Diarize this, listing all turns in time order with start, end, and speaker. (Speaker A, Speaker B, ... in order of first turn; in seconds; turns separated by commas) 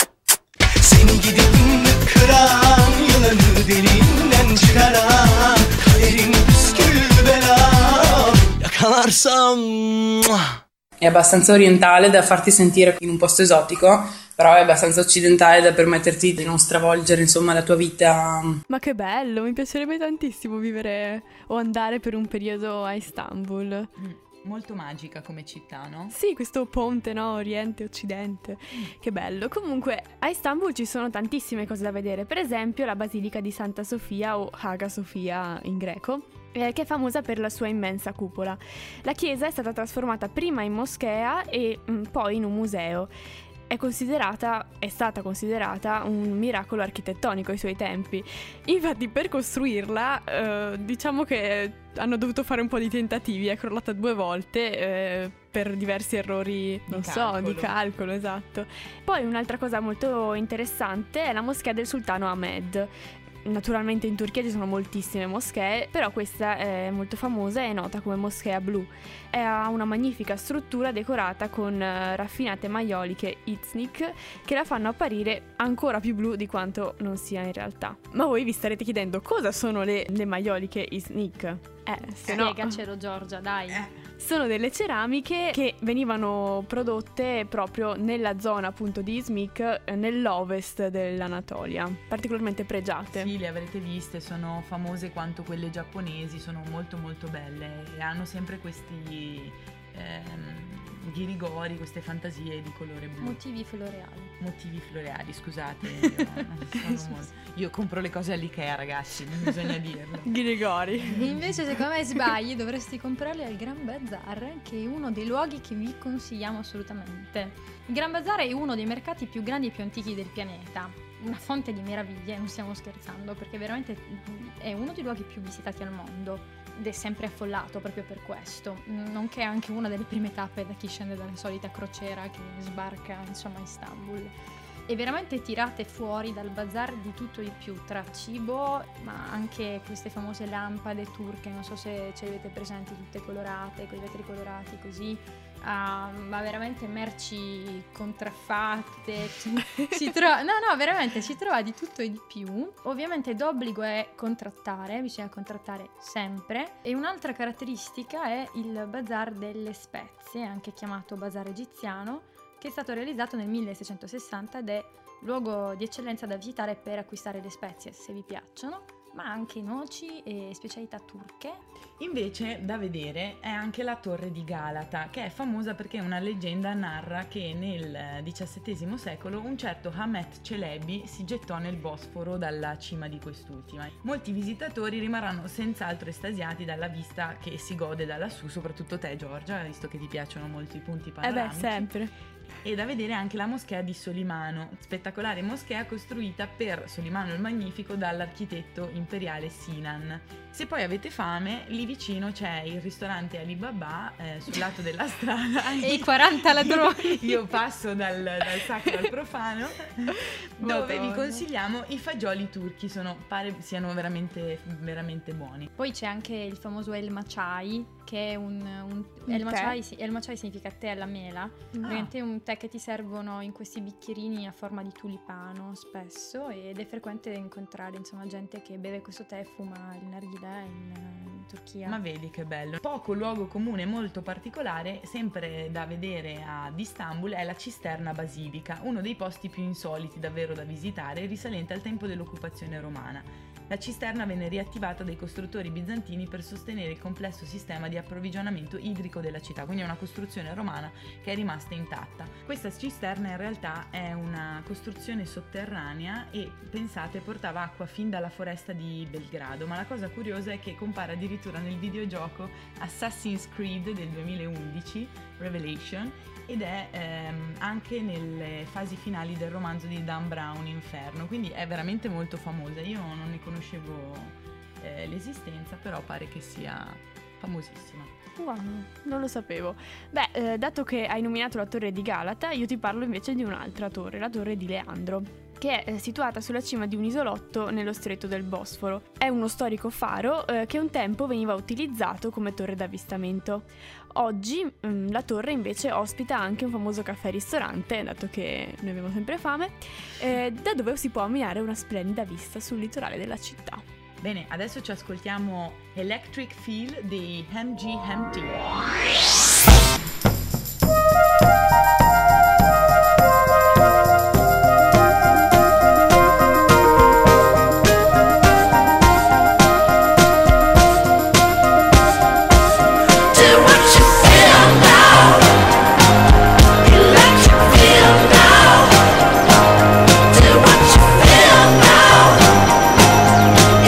Speaker A: 0.8-10.6, Speaker B: 11.0-18.6, Speaker C: 18.7-23.9, Speaker D: 24.0-26.1, Speaker C: 26.1-43.1, Speaker C: 43.7-62.9, Speaker D: 56.9-57.8, Speaker C: 63.4-82.8, Speaker E: 82.3-83.9, Speaker C: 84.2-93.3, Speaker D: 93.1-103.4, Speaker E: 103.2-104.3, Speaker D: 104.4-110.3, Speaker E: 106.7-107.1, Speaker C: 110.2-111.2, Speaker E: 111.1-134.3, Speaker D: 111.1-111.5, Speaker E: 134.9-171.7, Speaker D: 172.0-191.9, Speaker C: 191.2-192.1, Speaker D: 192.6-215.7, Speaker E: 205.7-207.4, Speaker C: 210.6-211.4, Speaker E: 215.8-232.0, Speaker C: 219.3-219.8, Speaker D: 231.8-278.1, Speaker C: 278.4-303.8, Speaker D: 304.2-308.8